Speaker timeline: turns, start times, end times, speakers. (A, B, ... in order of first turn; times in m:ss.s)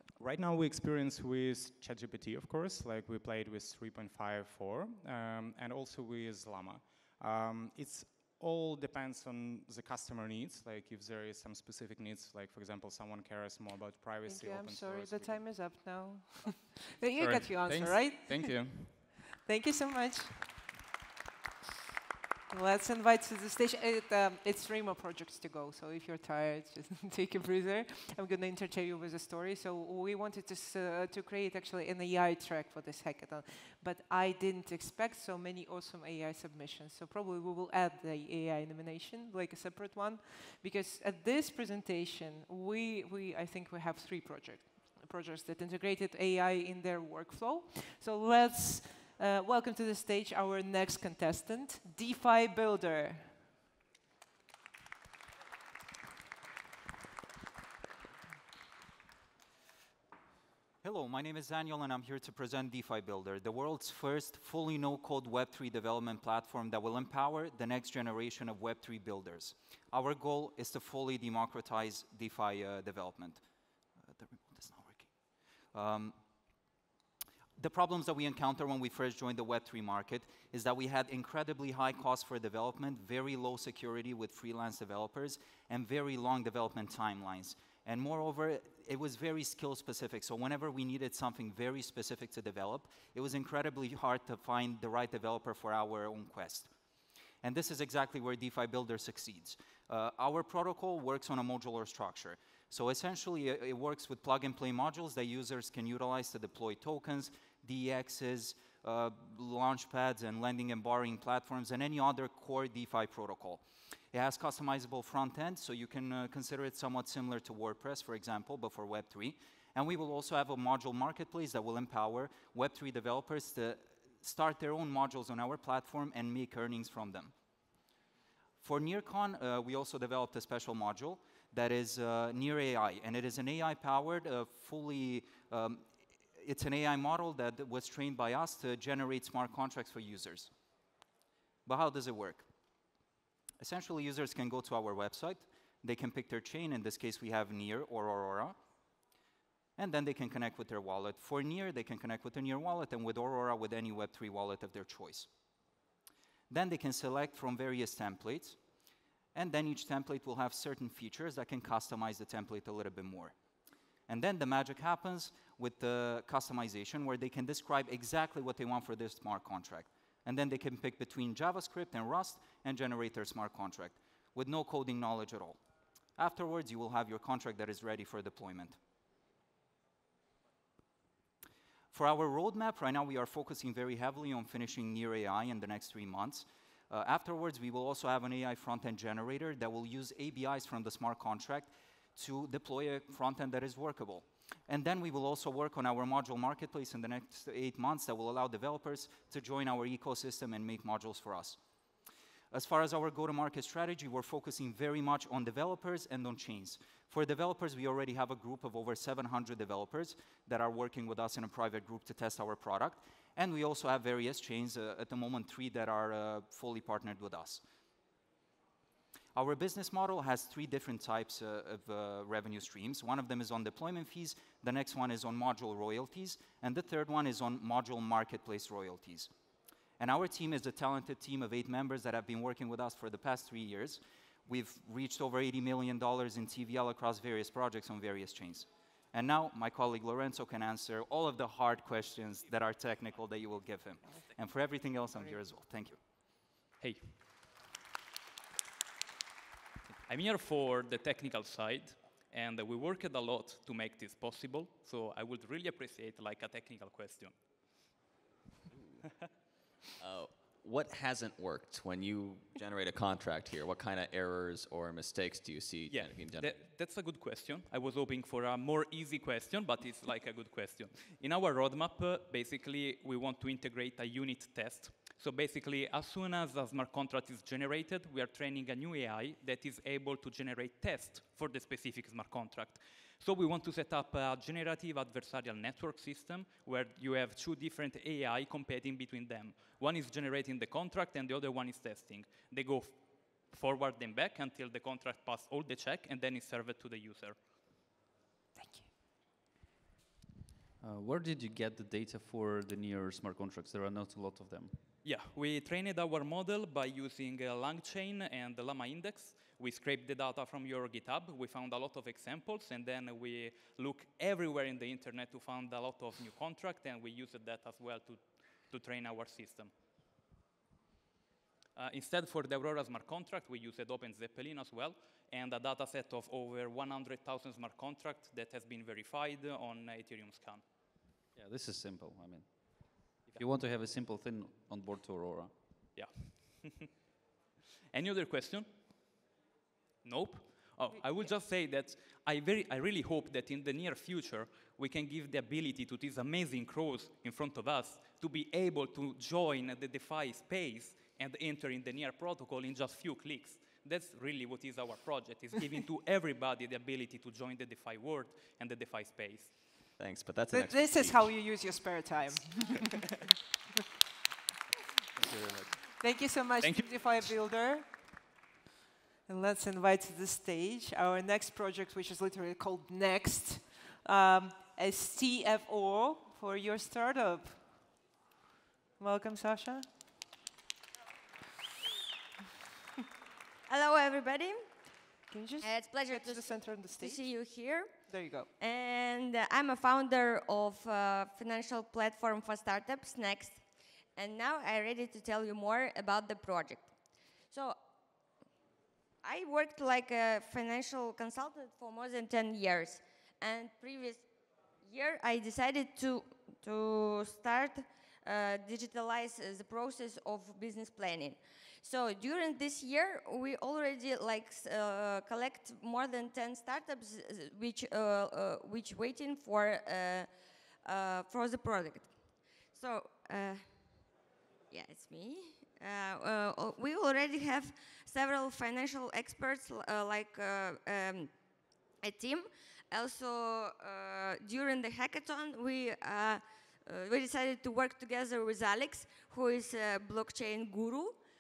0:00.2-0:15.6 A
0:14.2-0:20.6 B
0:17.0-0:19.0 A
0:22.5-0:53.4 B
1:00.8-1:13.4 C
1:14.0-1:15.2 C
1:15.7-1:16.2 C
1:17.6-1:36.7 C
1:37.4-2:07.3 C
2:08.6-2:20.5 C
2:21.6-2:22.5 C
2:23.6-2:28.6 C
2:29.8-2:35.3 C
2:36.5-2:38.6 C
2:39.3-2:43.3 C
2:44.1-2:55.6 C
2:56.2-2:58.8 C
3:01.9-3:21.6 C
3:22.5-3:37.6 C
3:39.3-3:49.3 C
3:50.0-4:06.0 C
4:06.8-4:07.2 D
4:10.0-4:17.4 D
4:20.0-4:26.5 E
4:25.9-4:57.4 D
4:58.5-4:58.9 B
5:00.8-5:04.9 F
5:05.0-5:19.7 D
5:21.8-5:30.6 D
5:31.3-5:35.8 F
5:35.9-5:36.9 D
5:37.9-5:38.7 D
5:40.0-5:59.6 D
6:00.0-6:01.4 E
6:00.5-6:03.0 B
6:05.4-6:05.7 E
6:06.0-6:08.0 B
6:06.6-6:06.9 D
6:09.3-6:17.9 B
6:19.0-6:19.9 B
6:23.7-6:24.6 G
6:25.3-6:27.3 B
6:25.6-6:28.0 G
6:28.1-6:28.5 B
6:28.6-6:33.6 G
6:34.2-6:36.9 G
6:37.5-6:37.8 G
6:39.2-6:44.2 G
6:44.8-7:00.3 G
7:00.8-7:02.1 G
7:02.7-7:03.7 G
7:04.7-7:11.3 G
7:12.0-7:21.2 G